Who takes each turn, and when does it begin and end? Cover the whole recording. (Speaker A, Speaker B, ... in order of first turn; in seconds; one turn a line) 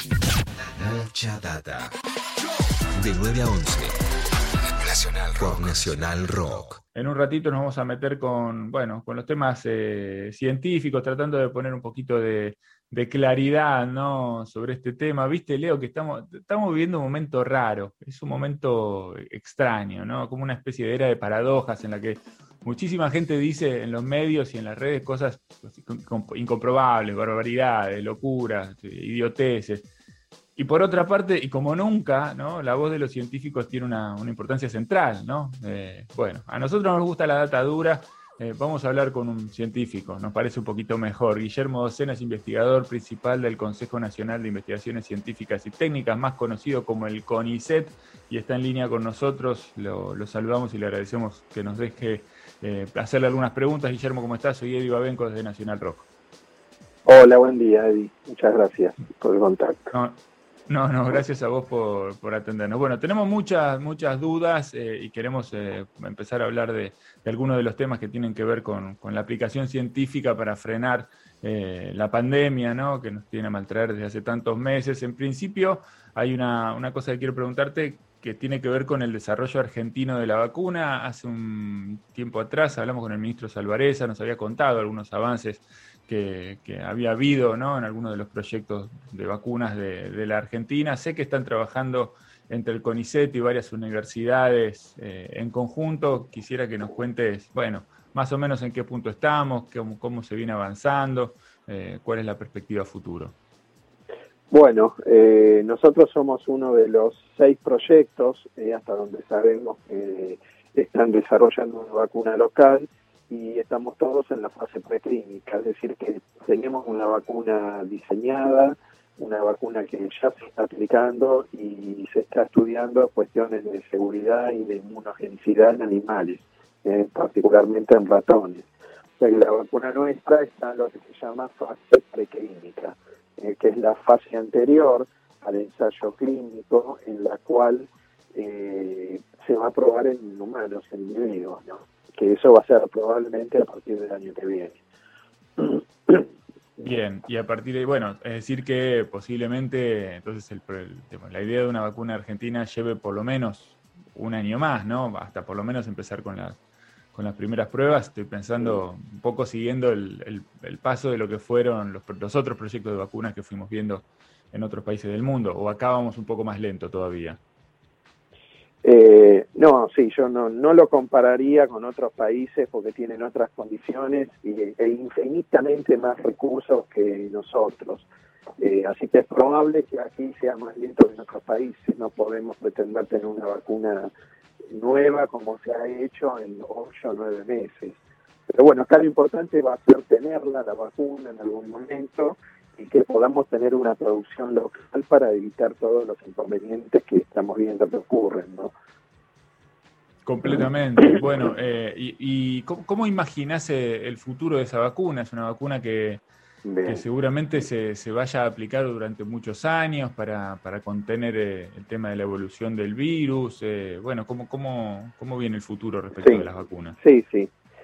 Speaker A: 0.6-1.9
Speaker A: 3.0-4.0
Speaker A: 4.8-6.8
Speaker B: 6.9-29.9
Speaker B: 30.6-56.0
Speaker C: 57.1-59.9
Speaker B: 59.9-103.3
Speaker C: 104.5-128.7
Speaker C: 129.2-144.8
Speaker C: 145.6-146.3
Speaker B: 146.8-156.6
Speaker B: 157.1-167.4
Speaker C: 168.8-178.1
Speaker C: 178.6-184.1
Speaker C: 184.7-188.0
Speaker C: 188.5-198.7
Speaker B: 200.2-206.2
Speaker C: 206.7-207.0
Speaker B: 206.8-217.0
Speaker C: 216.2-216.5
Speaker C: 217.0-217.5